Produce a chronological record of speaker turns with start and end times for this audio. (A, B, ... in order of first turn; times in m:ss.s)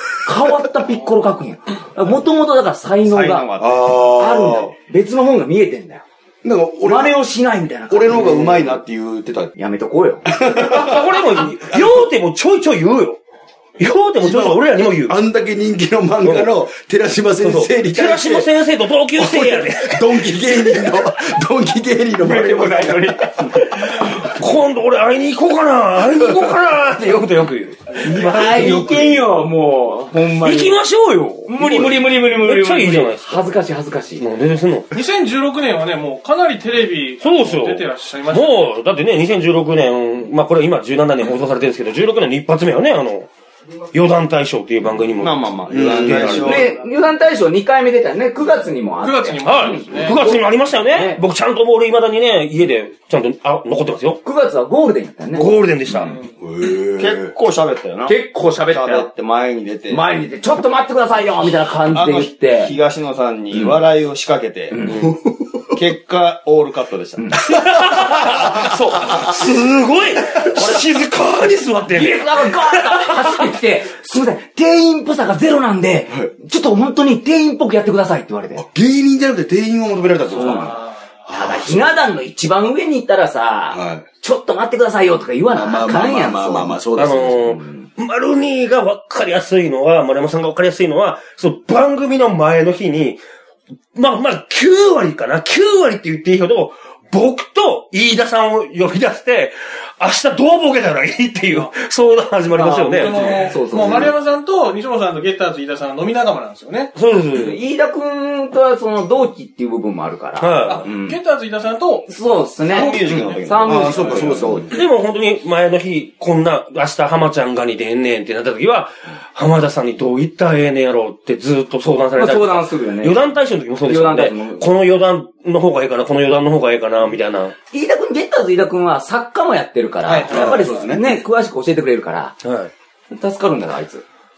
0:00.2-0:06.0 A
0:03.1-0:04.1 B
0:03.6-0:04.7 C
0:06.4-0:07.2 C
0:06.8-0:08.5 A
0:07.9-0:09.5 C
0:08.1-0:08.6 D
0:09.6-0:10.3 A
0:10.3-0:12.0 C
0:10.4-0:13.2 D
0:13.8-0:15.2 D
0:14.2-0:18.5 C
0:16.2-0:16.5 D
0:17.4-0:20.3 D
0:19.2-0:24.0 C
0:22.2-0:23.8 A
0:23.9-0:29.2 D
0:28.0-0:30.8 A
0:30.4-0:33.6 D
0:31.5-0:34.2 A
0:34.2-0:34.9 D
0:34.9-0:38.8 E
0:37.2-0:43.3 D
0:43.9-0:46.6 D
0:45.2-0:46.8 B
0:45.7-0:46.6 C
0:46.4-0:51.2 A
0:49.0-0:50.2 E
0:49.4-0:54.2 D
0:54.2-0:56.2 A
0:55.4-0:56.1 D
0:56.4-0:57.4 C
0:57.0-1:00.0 B
0:58.1-0:59.1 A
0:59.9-1:02.8 A
1:01.9-1:05.1 B
1:04.7-1:05.0 A
1:04.9-1:05.7 C
1:05.7-1:07.5 B
1:07.2-1:07.4 A
1:07.4-1:13.4 D
1:08.4-1:09.3 C
1:11.9-1:18.6 A
1:18.6-1:22.0 C
1:20.3-1:26.8 A
1:20.5-1:20.9 E
1:23.7-1:24.0 C
1:25.5-1:27.6 C
1:27.0-1:33.2 D
1:34.0-1:43.5 D
1:42.6-1:44.1 A
1:42.6-1:46.9 E
1:47.0-1:47.6 D
1:47.3-1:51.2 A
1:50.4-1:50.9 D
1:50.6-1:52.1 E
1:52.1-1:54.6 A
1:52.7-1:53.4 E
1:52.7-1:54.6 B
1:53.6-1:54.8 C
1:54.7-2:07.6 D
2:02.2-2:03.2 A
2:03.8-2:04.7 A
2:07.7-2:12.4 A
2:10.0-2:10.5 E
2:10.2-2:11.1 C
2:12.4-2:12.7 D
2:13.1-2:14.0 A